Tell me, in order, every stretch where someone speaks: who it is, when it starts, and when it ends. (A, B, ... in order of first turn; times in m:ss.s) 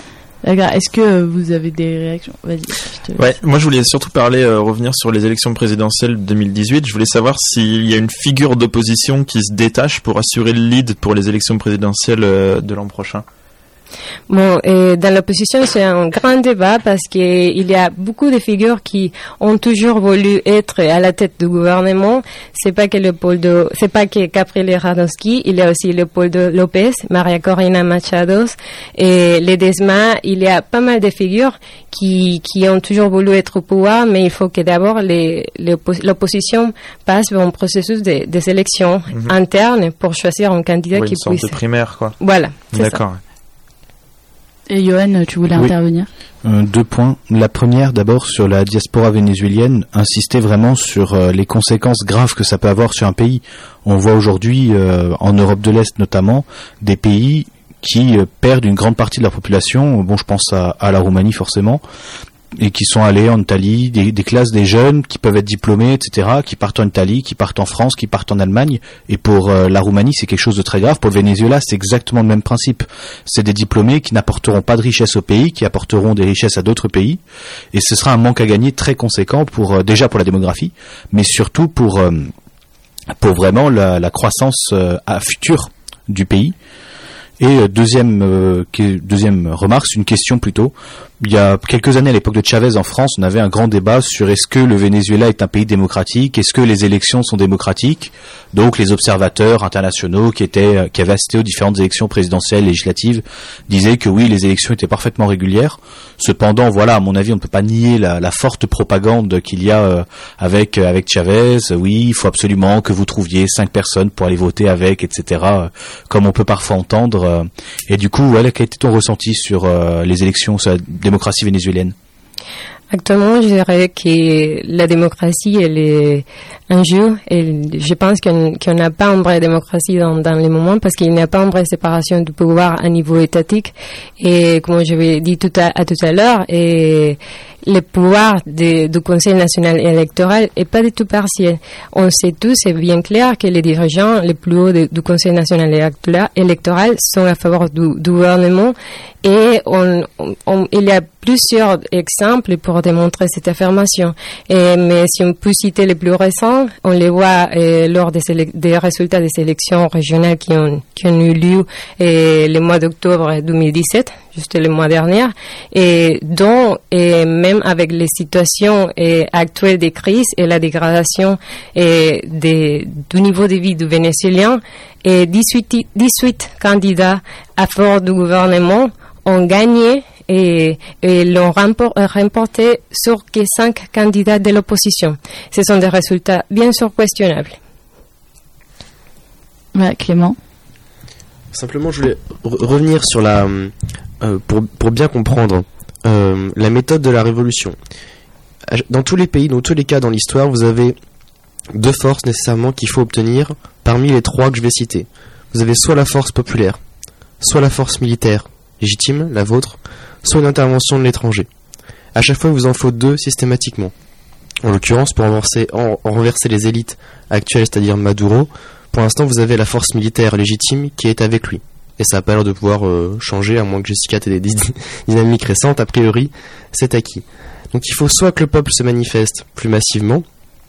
0:00.4-0:03.2 A
0:03.2-0:13.2 B
0:14.3-0:41.6 C
0:40.9-0:42.2 B
0:42.2-0:43.0 C
0:42.7-0:43.2 B
0:44.7-0:46.1 A
0:46.4-1:01.8 D
1:02.5-1:17.2 D
1:17.7-1:22.3 D
1:23.2-1:26.5 D
1:27.4-2:01.9 D
2:02.9-3:07.6 C
3:09.7-3:10.4 A
3:11.5-3:17.8 E
3:18.7-3:21.0 E
3:21.7-3:26.8 E
3:27.4-3:31.5 E
3:32.1-3:33.9 E
3:34.6-3:50.2 E